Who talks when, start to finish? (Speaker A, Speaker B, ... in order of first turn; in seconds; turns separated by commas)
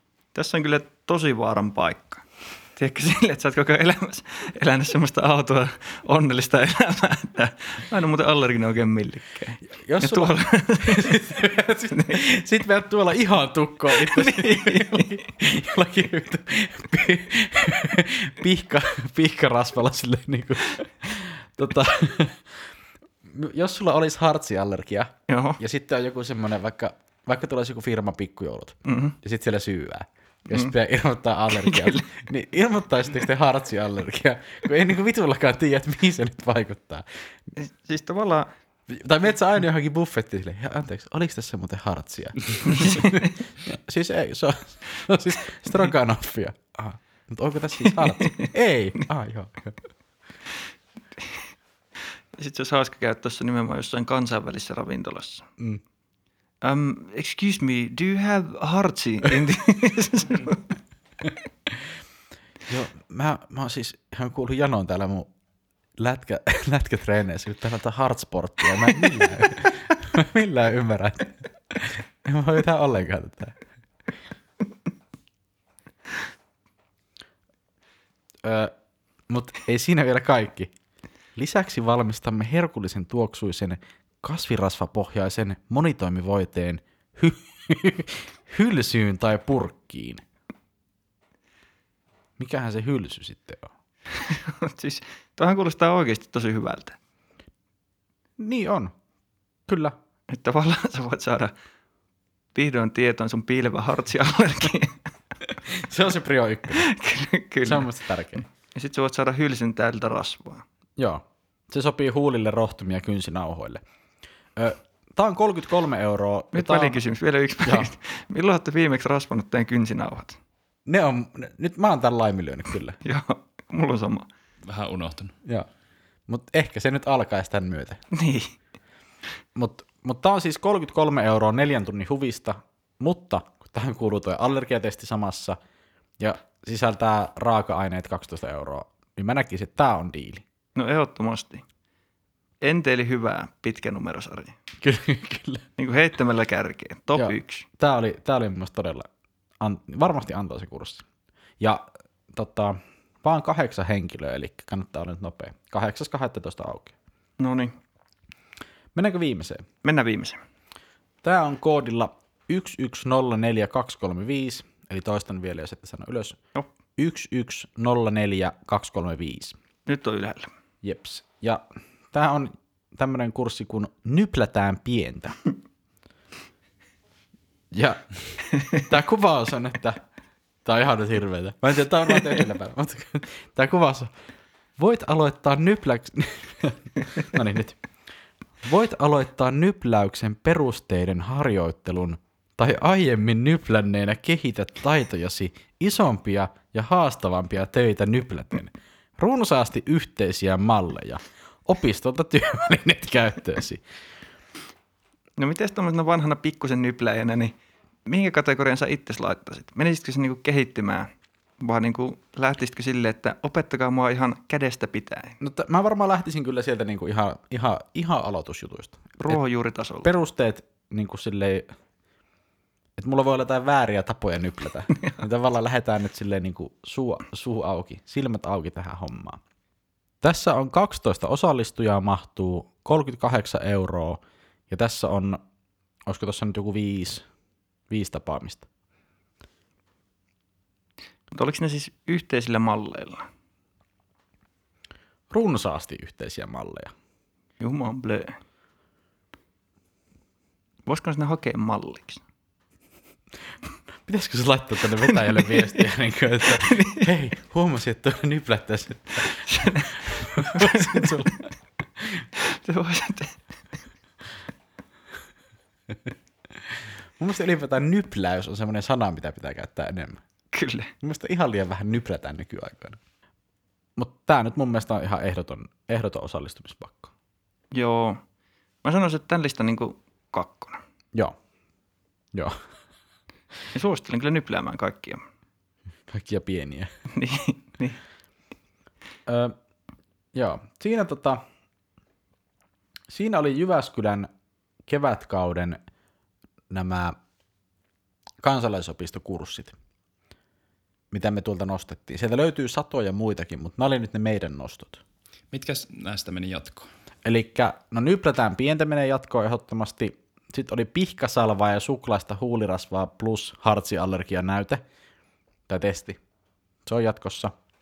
Speaker A: 0.3-12.2, Speaker B: 9.7-22.7, Speaker A: 13.9-15.2, Speaker B: 23.2-37.0, Speaker A: 25.3-25.6, Speaker A: 28.9-29.2, Speaker A: 31.5-32.1, Speaker A: 37.6-38.5, Speaker B: 38.9-49.8, Speaker A: 42.7-43.3, Speaker A: 47.9-48.5, Speaker A: 52.4-55.5, Speaker A: 56.6-60.6, Speaker B: 62.7-65.3, Speaker B: 66.0-73.6, Speaker B: 78.4-78.7, Speaker B: 79.3-80.7, Speaker B: 81.4-90.2, Speaker B: 92.4-93.7, Speaker A: 94.1-97.0, Speaker B: 98.4-98.9, Speaker B: 99.7-100.0, Speaker A: 100.3-101.5, Speaker A: 102.5-105.1, Speaker B: 105.7-106.9, Speaker A: 106.7-110.6, Speaker B: 107.7-108.4, Speaker B: 111.0-113.8, Speaker B: 114.6-117.0, Speaker A: 116.5-120.4, Speaker B: 117.7-117.9, Speaker B: 120.9-123.0, Speaker A: 123.0-124.3, Speaker C: 124.7-125.4, Speaker B: 126.3-128.0, Speaker A: 128.1-128.5, Speaker B: 129.6-135.6, Speaker B: 136.2-140.4, Speaker A: 140.8-141.6, Speaker A: 142.6-144.6, Speaker B: 144.8-145.7, Speaker A: 145.8-147.7, Speaker B: 147.2-149.1, Speaker B: 149.6-151.0, Speaker B: 151.6-156.9, Speaker A: 157.4-157.8, Speaker B: 158.9-159.7, Speaker A: 159.8-160.4, Speaker B: 161.2-166.4, Speaker B: 167.0-169.6, Speaker A: 169.9-170.5, Speaker B: 170.8-175.4, Speaker B: 177.7-178.1, Speaker B: 178.7-180.0, Speaker B: 180.7-184.1, Speaker B: 184.8-187.8, Speaker B: 188.6-203.8, Speaker A: 205.4-207.6, Speaker A: 208.1-215.4, Speaker B: 215.4-219.4, Speaker A: 219.2-220.1, Speaker B: 220.0-221.7, Speaker B: 223.0-229.4, Speaker B: 230.2-235.4, Speaker B: 236.1-237.3, Speaker B: 237.9-238.7, Speaker A: 241.3-243.3, Speaker B: 245.3-246.9, Speaker A: 247.6-248.3, Speaker A: 250.9-252.2, Speaker B: 254.1-261.4, Speaker A: 255.1-255.8, Speaker A: 256.5-257.1, Speaker A: 259.2-261.4, Speaker B: 262.0-262.2, Speaker A: 262.4-263.6, Speaker B: 266.7-270.2, Speaker A: 270.5-270.9, Speaker B: 271.0-273.0, Speaker B: 274.0-277.1, Speaker A: 277.7-278.2, Speaker A: 278.8-280.8, Speaker B: 282.3-282.6, Speaker A: 283.7-285.2, Speaker B: 286.1-286.9, Speaker A: 287.1-288.0, Speaker B: 289.3-289.6, Speaker B: 290.3-291.4, Speaker B: 293.1-294.3, Speaker B: 294.9-295.8, Speaker B: 296.7-297.2, Speaker B: 298.4-299.8, Speaker B: 301.1-305.0, Speaker C: 305.5-306.9, Speaker B: 307.2-314.8, Speaker B: 315.7-316.2, Speaker B: 316.9-317.5